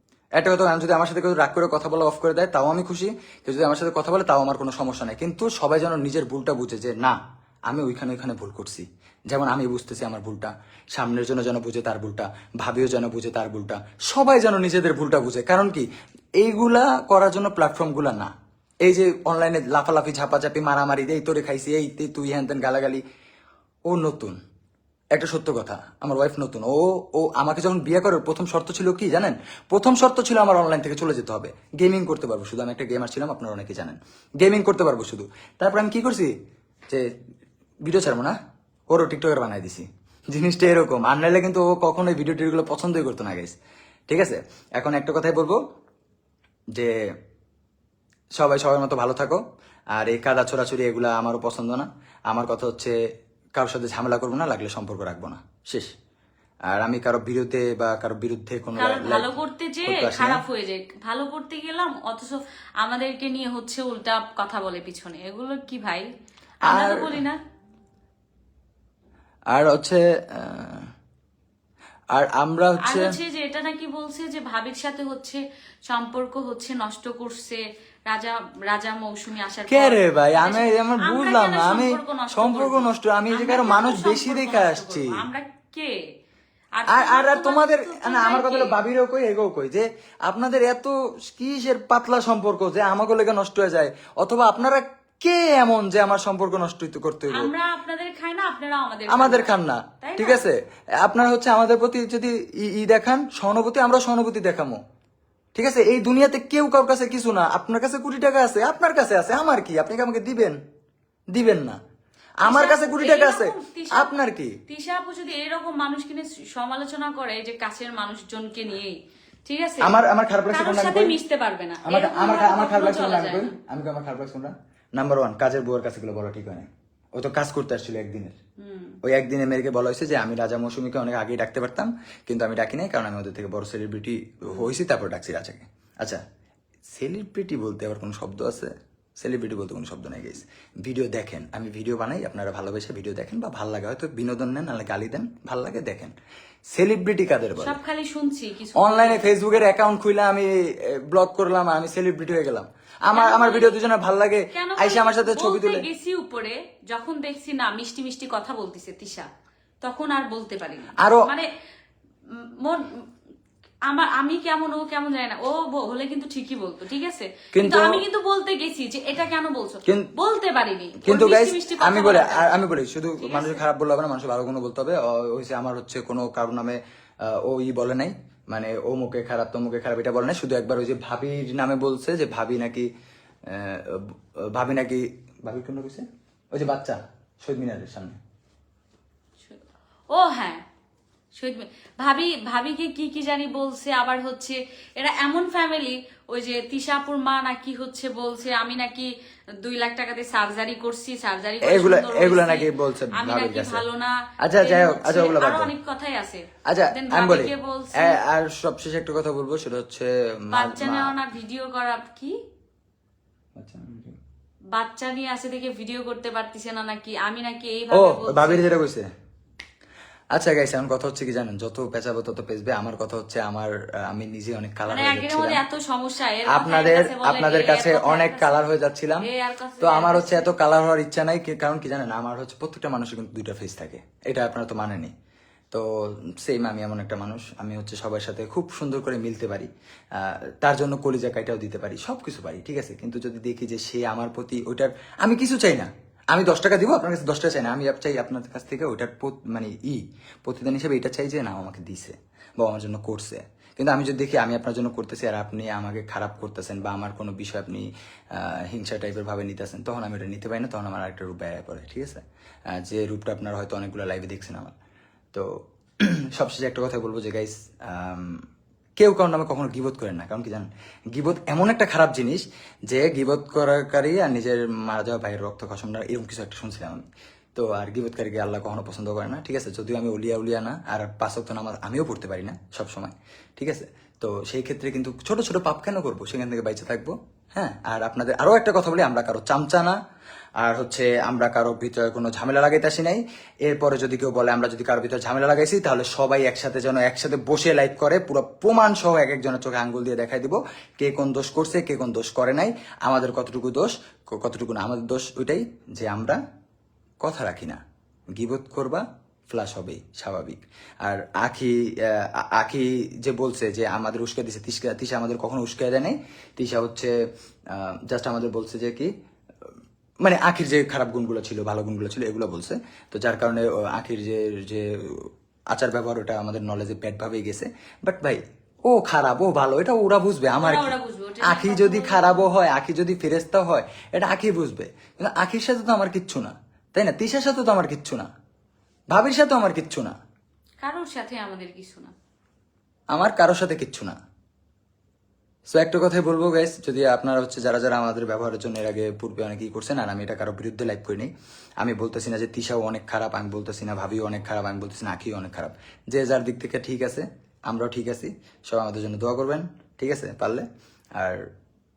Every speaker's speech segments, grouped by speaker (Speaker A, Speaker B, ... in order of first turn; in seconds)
Speaker A: 0.4-15.9, 16.4-18.3, 18.9-23.0, 23.9-24.4, 25.1-36.3, 37.8-38.4, 38.9-43.5, 44.1-45.6, 48.4-49.4, 50.0-53.0, 53.6-55.9, 56.7-60.4, 66.7-67.2, 69.5-70.9, 72.2-73.2, 79.7-85.2, 86.9-97.5, 99.1-104.8, 105.6-110.6, 111.3-111.8, 112.4-114.6, 119.8-121.2, 121.8-128.4, 129.0-136.2, 136.9-146.1, 146.7-147.8, 148.8-155.8, 161.0-161.3, 167.5-168.0, 171.0-182.9, 183.5-188.2, 201.6-203.8, 204.4-205.7, 206.7-211.1, 213.6-214.2, 217.9-219.1, 220.3-225.6, 226.5-229.3, 229.8-235.1, 235.7-262.2, 262.8-264.7, 266.0-268.4, 269.0-277.0, 277.6-290.0, 290.6-306.4, 307.2-307.8, 308.4-317.1, 317.7-319.1, 320.2-338.3, 339.1-340.1, 343.1-344.2, 345.7-351.3, 351.8-360.7, 361.2-361.5
Speaker B: 58.8-66.1, 66.6-67.4, 72.8-86.0, 86.7-88.8, 97.3-99.5, 100.0-100.5, 112.5-114.1, 114.7-120.0, 120.5-123.6, 128.6-129.0, 147.6-149.3, 153.1-153.8, 154.5-159.3, 159.8-161.5, 162.3-163.0, 163.9-172.6, 173.2-173.6, 190.1-190.6, 191.3-199.1, 199.6-208.2, 210.5-212.3, 214.7-218.8, 224.9-228.7, 229.2-230.5, 330.6-332.5, 340.8-342.1